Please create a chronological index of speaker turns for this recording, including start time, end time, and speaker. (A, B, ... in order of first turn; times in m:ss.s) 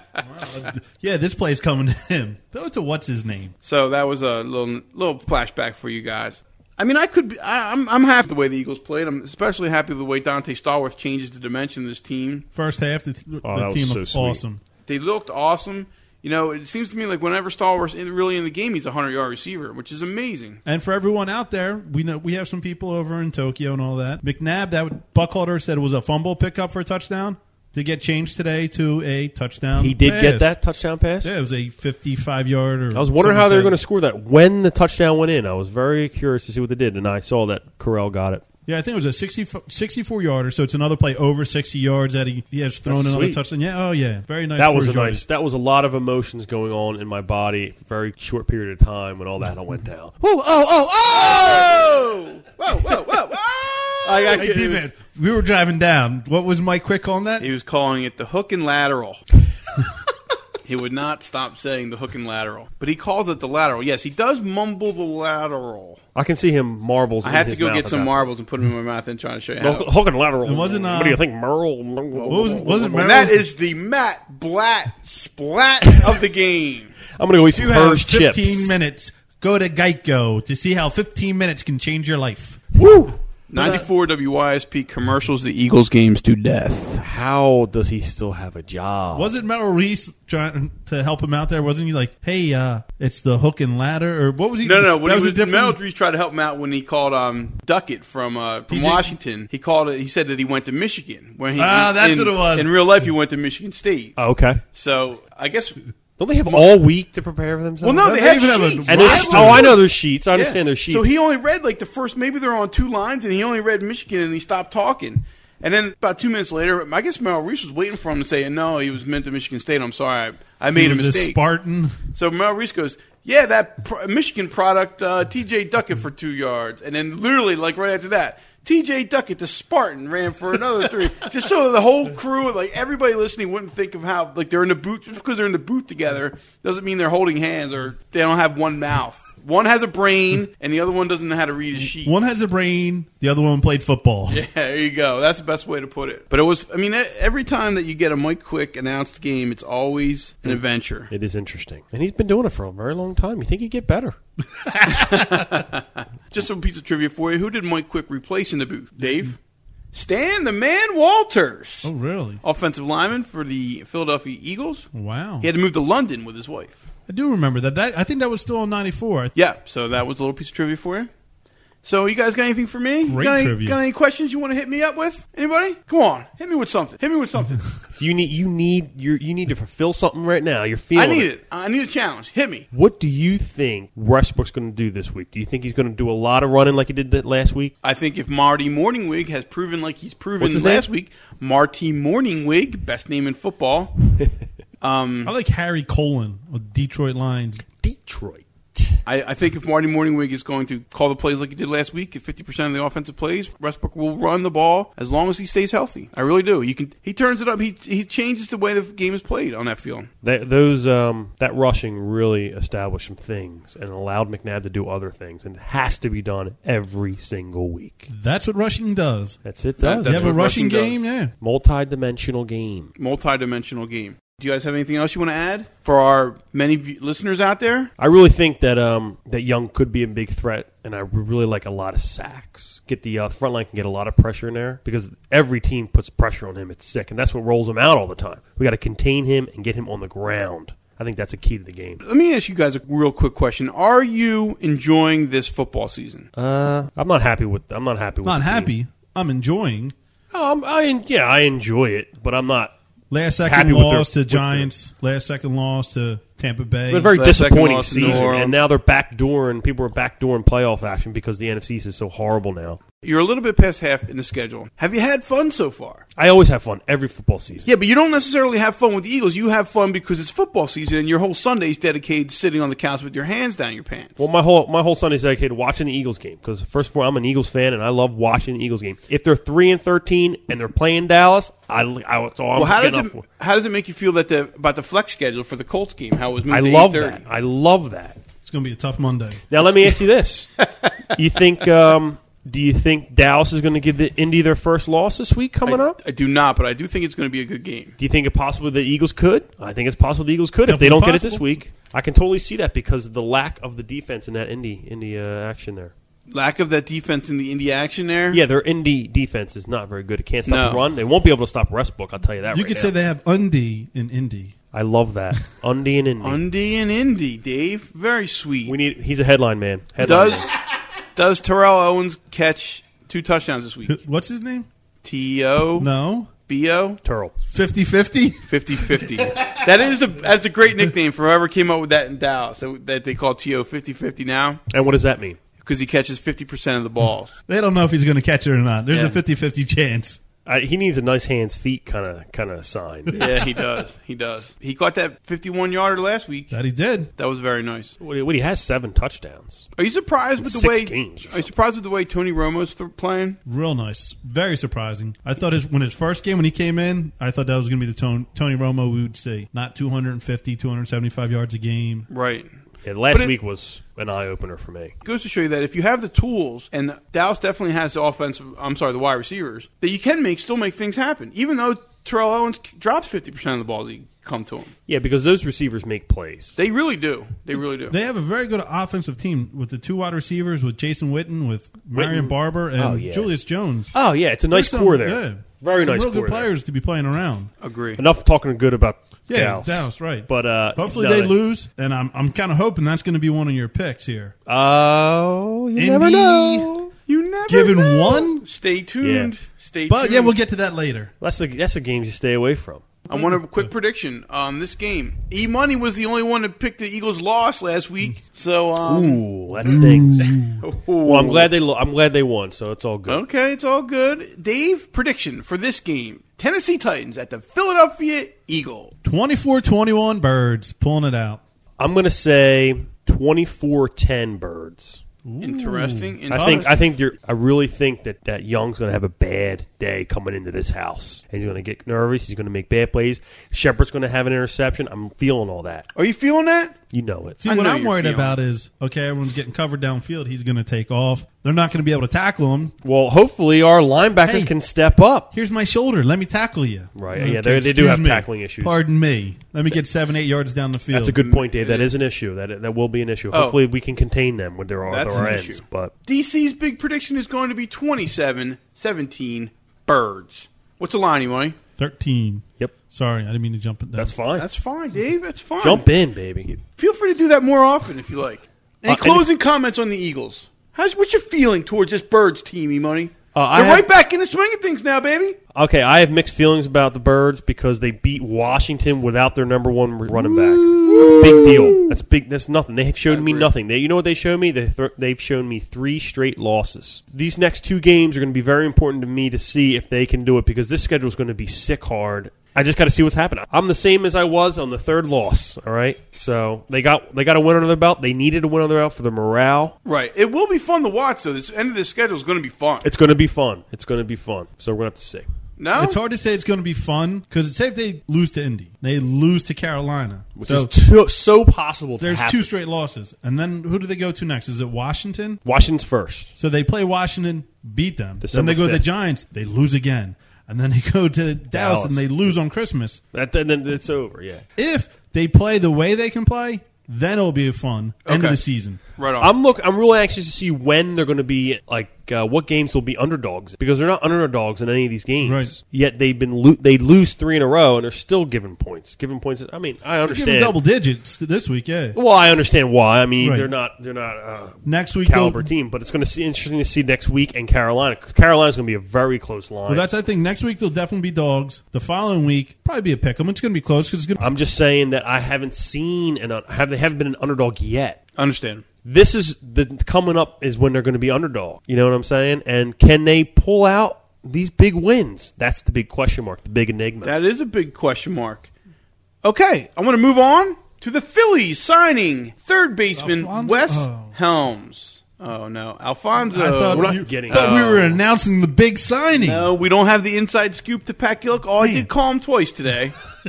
0:00.2-0:03.5 A
0:03.6-0:12.4 B
0:12.5-0:14.6 A
0:13.4-0:14.4 C
0:14.9-0:20.6 B
0:20.6-0:30.6 A
0:29.8-0:31.3 C
0:31.2-0:33.8 A
0:32.9-0:38.4 C
0:38.6-0:45.2 A
0:42.9-0:43.4 C
0:44.6-0:51.6 C
0:50.6-0:51.7 A
0:51.1-0:54.9 B
0:54.1-0:57.5 A
0:57.4-0:59.2 B
1:00.6-1:06.0 B
1:06.1-1:08.3 C
1:07.2-1:09.9 B
1:09.6-1:12.9 C
1:10.4-1:11.2 A
1:12.1-1:17.0 B
1:12.3-1:13.4 A
1:17.1-1:18.8 C
1:17.5-1:22.6 A
1:22.7-1:27.0 B
1:23.6-1:23.8 A
1:27.0-1:29.3 C
1:29.1-1:35.8 A
1:34.6-1:45.8 B
1:38.7-1:39.1 A
1:41.6-1:42.7 A
1:44.2-1:44.6 C
1:46.2-1:48.1 C
1:46.4-1:46.8 B
1:47.8-1:49.8 B
1:48.0-1:49.8 A
1:48.9-1:51.1 C
1:50.3-2:01.4 B
2:00.7-2:02.0 A
2:02.1-2:22.1 B
2:21.9-2:24.4 A
2:24.3-2:31.1 B
2:30.4-2:34.2 C
2:34.8-2:39.4 B
2:39.9-2:41.9 B
2:41.8-2:42.4 A
2:42.4-2:46.8 B
2:44.9-2:45.5 A
2:47.1-2:49.3 A
2:49.4-2:51.1 B
2:51.8-2:57.7 B
2:53.0-2:53.8 A
2:57.9-3:01.3 C
3:00.9-3:02.7 B
3:02.7-3:07.7 C
3:07.8-3:14.2 B
3:10.4-3:10.9 C
3:14.8-3:15.3 B
3:15.2-3:17.6 A
3:17.8-3:19.0 C
3:19.1-3:30.1 B
3:30.2-3:38.1 C
3:38.1-3:39.4 A
3:39.4-3:40.6 C
3:39.8-3:41.0 B
3:40.0-3:41.3 A
3:41.4-3:42.9 C
3:43.0-3:47.9 B
3:48.0-4:02.0 C
4:02.0-4:06.3 B
4:06.4-4:08.7 C
4:08.2-4:09.9 A
4:10.3-4:12.7 C
4:13.1-4:17.2 A
4:13.4-4:14.7 C
4:16.9-4:22.8 C
4:17.1-4:18.6 B
4:18.0-4:18.3 A
4:23.0-4:26.0 B
4:26.2-4:27.7 C
4:27.6-4:34.2 B
4:34.2-4:43.2 C
4:42.5-4:47.2 B
4:46.5-4:48.2 C
4:48.4-4:49.8 A
4:49.5-4:50.5 C
4:50.6-4:50.9 B
4:51.1-4:56.0 C
4:55.6-4:58.0 B
4:58.0-5:05.9 C
5:00.7-5:01.4 A
5:06.3-5:08.4 B
5:08.3-5:12.9 C
5:10.5-5:10.8 B
5:12.5-5:14.5 A
5:14.7-5:16.4 C
5:16.2-5:18.7 B
5:18.6-5:20.5 C
5:20.0-5:20.5 B
5:21.1-5:24.0 B
5:23.9-5:24.7 A
5:25.0-5:25.9 B
5:25.8-5:26.3 A
5:26.5-5:27.0 B
5:27.0-5:27.3 C
5:27.5-5:29.6 A
5:28.5-5:34.6 B
5:34.7-5:35.4 C
5:35.6-5:37.3 B
5:37.5-5:40.2 A
5:40.4-5:43.2 C
5:43.1-5:46.5 B
5:46.5-5:47.1 A
5:47.2-5:47.9 B
5:48.0-5:49.7 C
5:49.8-5:53.4 B
5:50.4-5:51.5 C
5:53.4-6:02.1 A
6:02.1-6:02.5 B
6:02.8-6:04.9 C
6:05.0-6:14.7 B
6:14.9-6:16.6 C
6:16.6-6:18.0 B
6:17.9-6:23.9 A
6:21.9-6:23.3 C
6:23.9-6:26.5 C
6:24.5-6:27.5 A
6:27.6-6:28.0 B
6:28.0-6:31.4 C
6:29.3-6:34.3 A
6:34.5-6:36.9 C
6:35.8-6:36.7 A
6:37.1-6:40.4 B
6:37.5-6:38.4 A
6:39.0-6:39.3 C
6:39.9-6:41.1 A
6:41.2-6:42.8 C
6:43.1-6:51.5 B
6:43.1-6:43.7 A
6:48.8-6:50.4 C
6:49.7-6:50.6 A
6:51.0-6:53.2 C
6:53.1-6:58.9 B
6:59.0-7:01.4 A
7:01.8-7:05.0 C
7:05.2-7:06.7 A
7:05.4-7:06.9 B
7:06.3-7:15.8 C
7:15.9-7:16.8 B
7:16.9-7:17.4 C
7:17.4-7:22.7 A
7:17.4-7:18.4 B
7:22.8-7:25.3 C
7:24.2-7:24.5 A
7:25.3-7:31.2 A
7:27.0-7:28.7 C
7:30.9-7:35.9 C
7:31.2-7:31.9 B
7:33.3-7:33.6 B
7:34.9-7:41.6 B
7:41.8-7:44.1 A
7:44.0-7:44.4 C
7:44.4-7:45.9 B
7:45.6-7:46.5 C
7:46.5-7:55.4 B
7:48.8-7:49.2 C
7:53.3-7:53.9 C
7:55.5-8:19.7 C
8:00.6-8:01.7 A
8:00.8-8:01.7 B
8:03.1-8:03.5 B
8:19.8-8:22.8 B
8:22.8-8:25.3 C
8:25.6-8:26.0 B
8:25.8-8:30.7 A
8:30.4-8:32.5 C
8:32.0-8:35.4 A
8:35.4-8:36.3 C
8:36.4-8:43.0 A
8:38.2-8:38.9 C
8:41.5-8:42.1 C
8:43.1-8:44.4 C
8:44.6-8:48.8 A
8:48.0-8:48.4 B
8:49.0-8:49.3 B
8:49.2-9:00.6 C
8:55.2-8:55.5 A
9:00.0-9:02.0 A
9:01.9-9:09.8 C
9:03.2-9:03.5 A
9:04.6-9:05.5 A
9:09.7-9:14.3 A
9:14.2-9:18.0 C
9:18.2-9:18.6 B
9:18.8-9:27.1 C
9:27.0-9:28.5 B
9:29.2-9:37.9 B
9:33.0-9:34.1 A
9:36.3-9:39.5 A
9:36.7-9:37.9 C
9:39.1-9:43.0 B
9:41.6-9:41.9 A